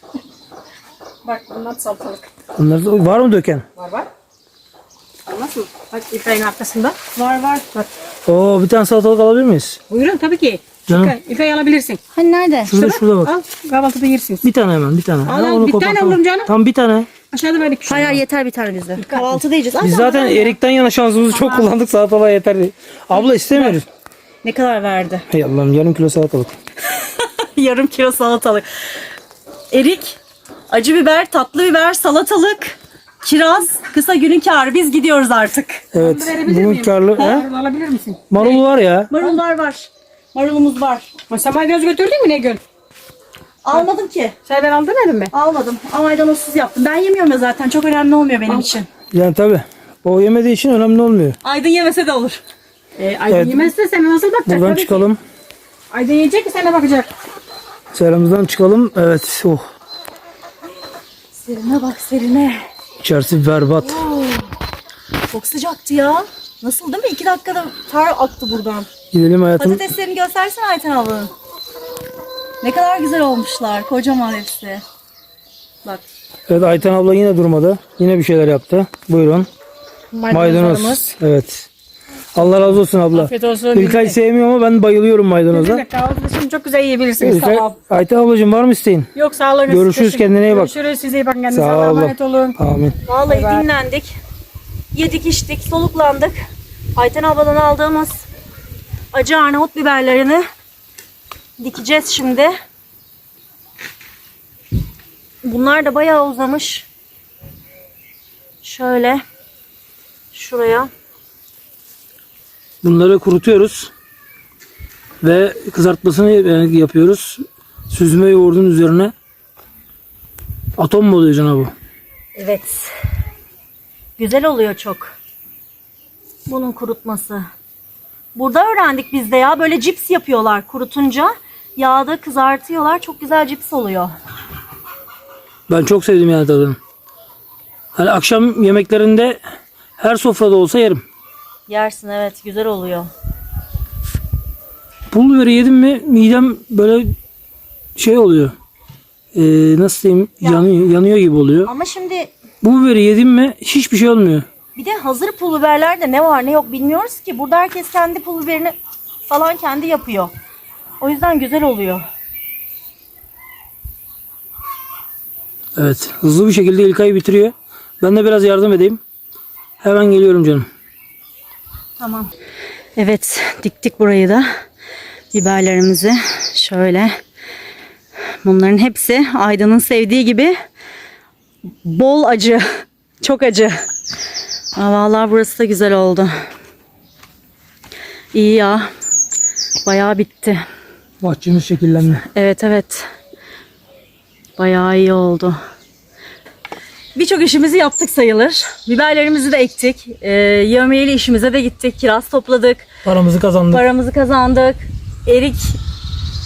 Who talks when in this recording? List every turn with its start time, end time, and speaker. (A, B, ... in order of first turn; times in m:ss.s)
0:01.2-0:02.3 A
0:02.6-0:03.6 B
0:03.8-0:04.1 A
0:05.3-0:07.0 A
0:07.1-0:07.6 C
0:08.2-0:09.8 B
0:09.9-0:12.0 A
0:10.9-0:11.2 B
0:12.1-0:12.7 C
0:12.7-0:13.3 B
0:12.7-0:14.4 A
0:14.4-0:17.1 B
0:15.2-0:16.5 A
0:17.3-0:18.2 A
0:17.8-0:20.5 C
0:19.0-0:19.3 A
0:19.8-0:23.8 B
0:23.2-0:23.8 A
0:24.4-0:25.2 C
0:25.3-0:26.5 B
0:27.0-0:28.6 C
0:29.7-0:30.2 C
0:30.7-0:35.8 C
0:35.9-0:37.4 B
0:36.0-0:38.6 A
0:38.3-0:39.1 B
0:39.1-0:41.1 C
0:41.3-0:42.6 A
0:43.6-0:44.3 C
0:44.4-0:45.3 A
0:45.3-0:48.9 C
0:49.1-0:51.4 B
0:51.4-0:52.4 C
0:53.0-0:55.0 A
0:53.3-0:53.7 B
0:54.4-0:55.2 B
0:55.9-0:57.1 A
0:57.9-0:59.6 B
1:01.4-1:02.7 C
1:03.0-1:04.0 B
1:03.8-1:04.5 C
1:05.3-1:08.9 C
1:09.1-1:09.8 B
1:09.6-1:11.3 C
1:12.6-1:14.8 C
1:16.5-1:19.5 B
1:20.1-1:21.2 A
1:20.3-1:21.7 B
1:22.3-1:25.8 B
1:23.1-1:24.2 A
1:25.5-1:27.7 A
1:27.2-1:29.1 B
1:29.1-1:32.6 A
1:29.7-1:30.7 B
1:31.5-1:33.0 B
1:33.0-1:34.2 C
1:33.2-1:33.6 A
1:34.9-1:36.4 C
1:37.0-1:38.2 C
1:39.1-1:40.4 C
1:41.6-1:42.5 C
1:45.4-1:46.8 C
1:48.6-1:49.2 C
1:50.3-1:50.9 C
1:52.8-1:53.9 B
1:55.2-1:59.1 B
2:00.8-2:01.7 B
2:02.4-2:02.9 C
2:04.2-2:05.1 C
2:06.5-2:07.5 C
2:08.3-2:14.1 C
2:15.7-2:16.8 B
2:17.9-2:19.4 B
2:20.0-2:21.0 B
2:21.7-2:23.1 C
2:25.1-2:27.1 B
2:28.0-2:28.5 B
2:29.3-2:31.7 B
2:31.6-2:32.3 C
2:32.6-2:34.4 B
2:34.8-2:38.7 C
2:39.3-2:40.3 C
2:41.0-2:42.0 C
2:45.8-2:49.0 B
2:49.8-2:50.7 B
2:52.0-2:52.3 C
2:53.0-2:54.5 C
2:55.3-2:57.2 C
2:58.4-3:00.6 C
3:01.8-3:03.8 C
3:04.8-3:06.3 C
3:08.3-3:08.9 C
3:09.8-3:10.6 C
3:11.2-3:12.2 B
3:12.3-3:13.1 C
3:14.6-3:15.6 C
3:17.2-3:22.9 C
3:23.0-3:23.8 B
3:23.7-3:25.8 C